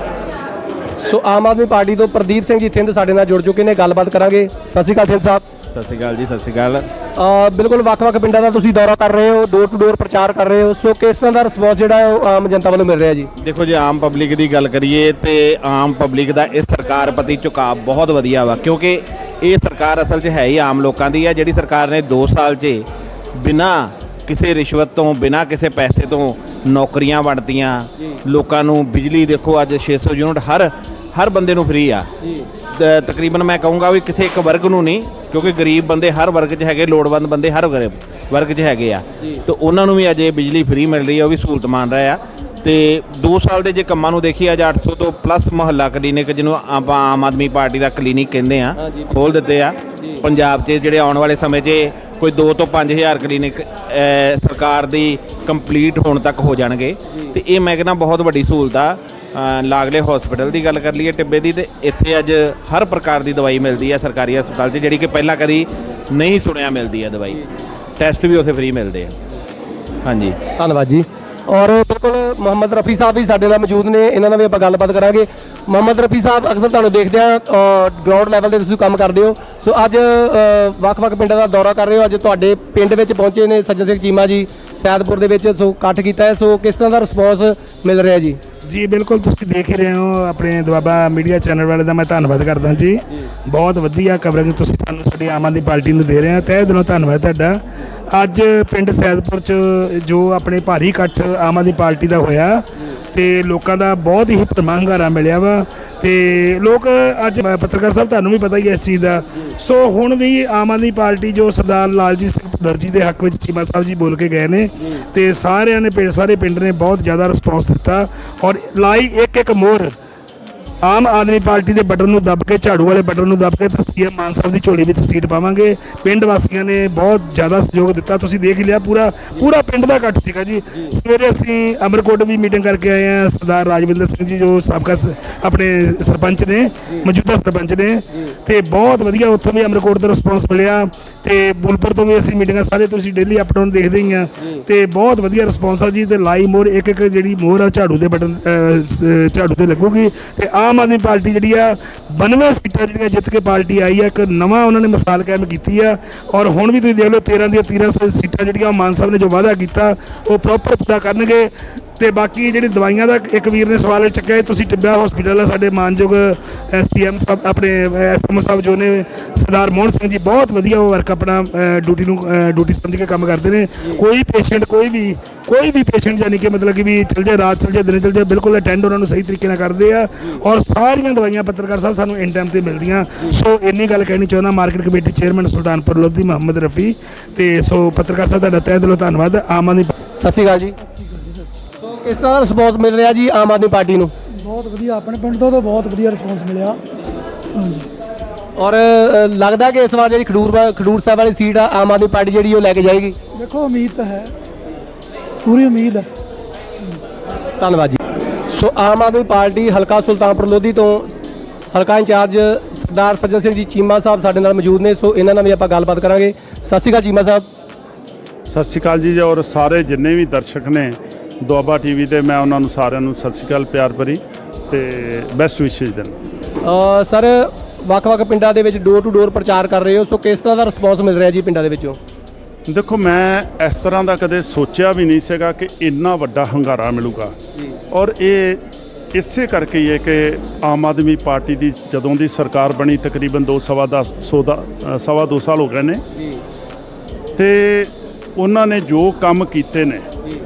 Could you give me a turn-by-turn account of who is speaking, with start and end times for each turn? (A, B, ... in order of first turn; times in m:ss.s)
0:01.0-0:05.4 A
0:05.7-0:06.8 B
0:07.2-0:13.3 A
0:13.4-0:22.8 B
0:23.4-0:32.1 B
0:32.7-1:07.4 B
1:08.0-1:09.1 B
1:10.0-1:10.4 B
1:10.6-1:28.4 A
1:28.6-1:37.6 C
1:38.1-1:59.9 C
2:00.8-3:09.9 C
3:10.2-3:10.7 A
3:10.8-3:11.5 D
3:11.8-3:14.1 A
3:14.4-3:16.8 D
3:17.5-3:17.9 D
3:18.6-3:23.2 A
3:23.3-3:24.3 D
3:25.4-3:26.1 D
3:27.6-3:28.0 A
3:28.5-3:31.2 A
3:31.7-3:37.5 A
3:38.5-3:46.1 E
3:46.6-3:52.0 A
3:52.7-3:57.3 E
3:57.9-3:58.6 E
3:59.1-4:06.0 E
4:07.4-4:10.1 E